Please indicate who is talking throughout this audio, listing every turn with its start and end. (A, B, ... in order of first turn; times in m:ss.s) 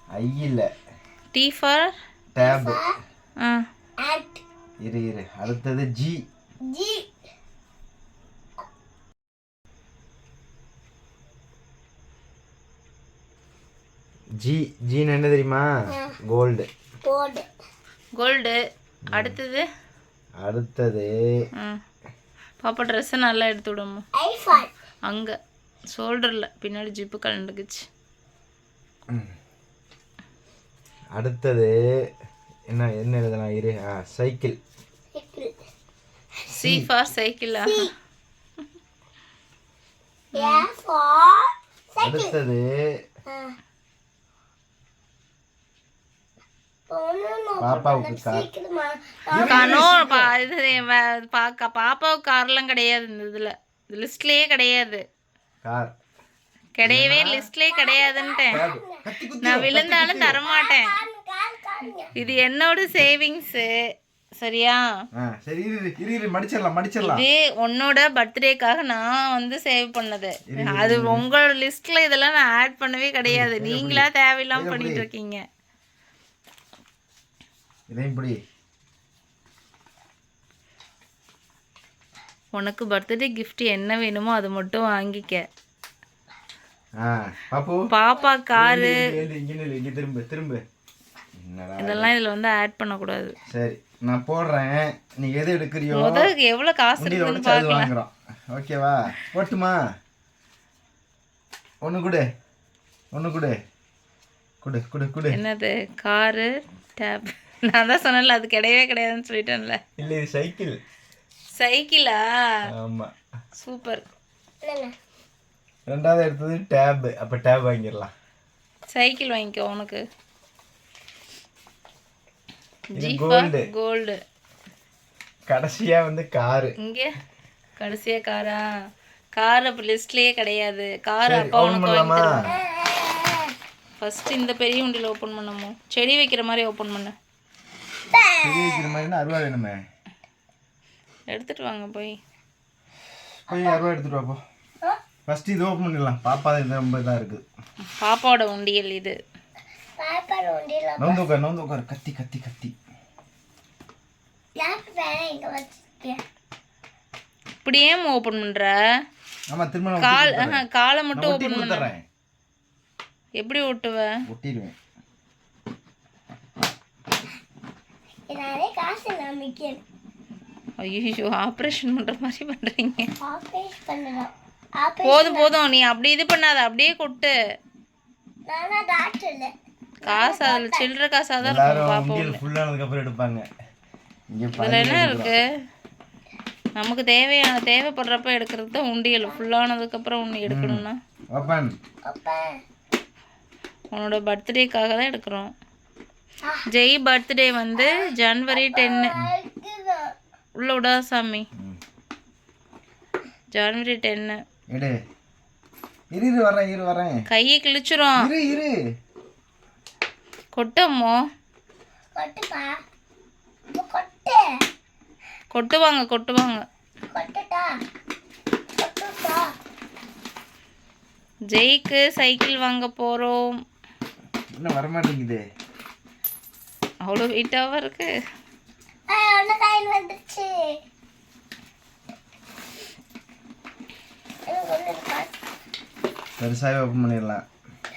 0:00.2-0:00.7 A
0:01.3-0:01.9 B
0:02.3-0:02.8 A
0:02.4-0:03.0 C
0:04.0-0:04.4 C
0:04.8-0:06.2 A
0:06.7-0:07.1 C
0:14.4-0:15.7 A
0:16.3-0:16.7 A
0:17.0-0:17.5 C
0:18.2-0:18.6 B
0:19.1-0:19.4 A
0:19.2-0:19.6 B
0:20.4-0:21.1 A
0:22.6-0:24.0 B
0:24.2-0:24.7 C
0:25.1-0:25.4 B
0:25.9-0:27.8 B
0:31.2-0:31.7 A
0:32.7-0:34.6 A
0:35.2-0:35.5 C
0:36.5-0:37.9 B
0:36.6-0:36.9 A
0:37.6-0:37.9 C
0:40.4-0:40.7 B
0:40.4-0:42.3 C
0:42.0-0:42.7 A
0:43.3-0:43.6 C
0:46.9-0:49.8 C
0:47.6-0:48.5 A
0:49.3-0:50.3 A
0:49.4-0:55.0 B
0:55.6-0:55.9 A
0:56.8-0:58.6 B
0:56.8-0:57.5 A
0:57.7-0:59.0 C
0:58.5-1:00.4 A
0:59.4-1:01.0 B
1:00.4-1:02.1 C
1:02.2-1:03.7 B
1:04.4-1:04.8 B
1:05.2-1:07.2 A
1:07.0-1:15.4 B
1:10.5-1:11.3 A
1:13.2-1:15.0 A
1:17.9-1:18.4 A
1:22.5-1:25.4 B
1:27.0-1:27.8 A
1:27.9-1:29.0 B
1:28.5-1:30.6 A
1:31.4-1:32.1 A
1:31.8-1:33.4 B
1:33.5-1:36.3 A
1:36.0-1:37.9 B
1:37.0-1:39.8 A
1:41.8-1:42.2 A
1:43.1-1:43.6 A
1:44.6-1:45.4 A
1:45.3-1:49.8 B
1:50.0-1:50.8 A
1:51.6-1:52.2 B
1:52.7-1:53.1 A
1:53.6-1:54.0 B
1:54.6-1:54.9 C
1:55.9-1:58.1 A
1:58.9-2:00.0 B
2:02.9-2:04.2 B
2:03.0-2:03.7 A
2:05.5-2:06.7 A
2:06.8-2:07.1 B
2:07.8-2:08.6 B
2:09.4-2:12.5 B
2:11.2-2:12.3 A
2:12.4-2:13.5 C
2:14.0-2:17.1 B
2:18.1-2:18.9 C
2:18.4-2:19.8 A
2:21.3-2:22.2 B
2:23.5-2:24.4 A
2:23.5-2:23.9 C
2:25.3-2:27.4 A
2:28.0-2:29.2 B
2:30.0-2:31.3 C
2:31.0-2:32.7 A
2:34.6-2:36.2 C
2:37.6-2:38.7 B
2:39.5-2:40.6 A
2:40.0-2:41.9 B
2:41.2-2:42.0 A
2:43.4-2:44.1 B
2:44.3-2:44.8 A
2:48.3-2:49.8 C
2:50.8-2:53.1 B
2:53.2-2:55.5 C
2:55.0-2:57.3 B
2:58.5-2:59.5 C
3:00.0-3:02.4 B
3:00.0-3:00.9 C
3:01.4-3:03.5 A
3:04.3-3:05.3 A
3:04.6-3:05.4 B
3:06.8-3:11.0 B
3:10.5-3:11.7 A
3:12.1-3:12.5 C
3:13.9-3:15.5 B
3:16.7-3:19.3 B
3:18.5-3:20.1 C
3:20.6-3:21.5 B
3:23.5-3:24.4 B
3:24.7-3:25.0 A
3:26.1-3:27.2 A
3:27.3-3:28.2 B
3:28.2-3:28.8 A
3:30.6-3:31.2 B
3:32.2-3:32.7 C
3:33.8-3:34.4 C
3:35.5-3:36.6 B
3:37.1-3:37.7 C
3:38.8-3:39.4 C
3:41.5-3:43.5 B
3:44.6-3:45.4 A
3:47.1-3:48.1 B
3:49.1-3:50.5 C
3:54.5-3:55.3 C
3:56.4-3:57.4 A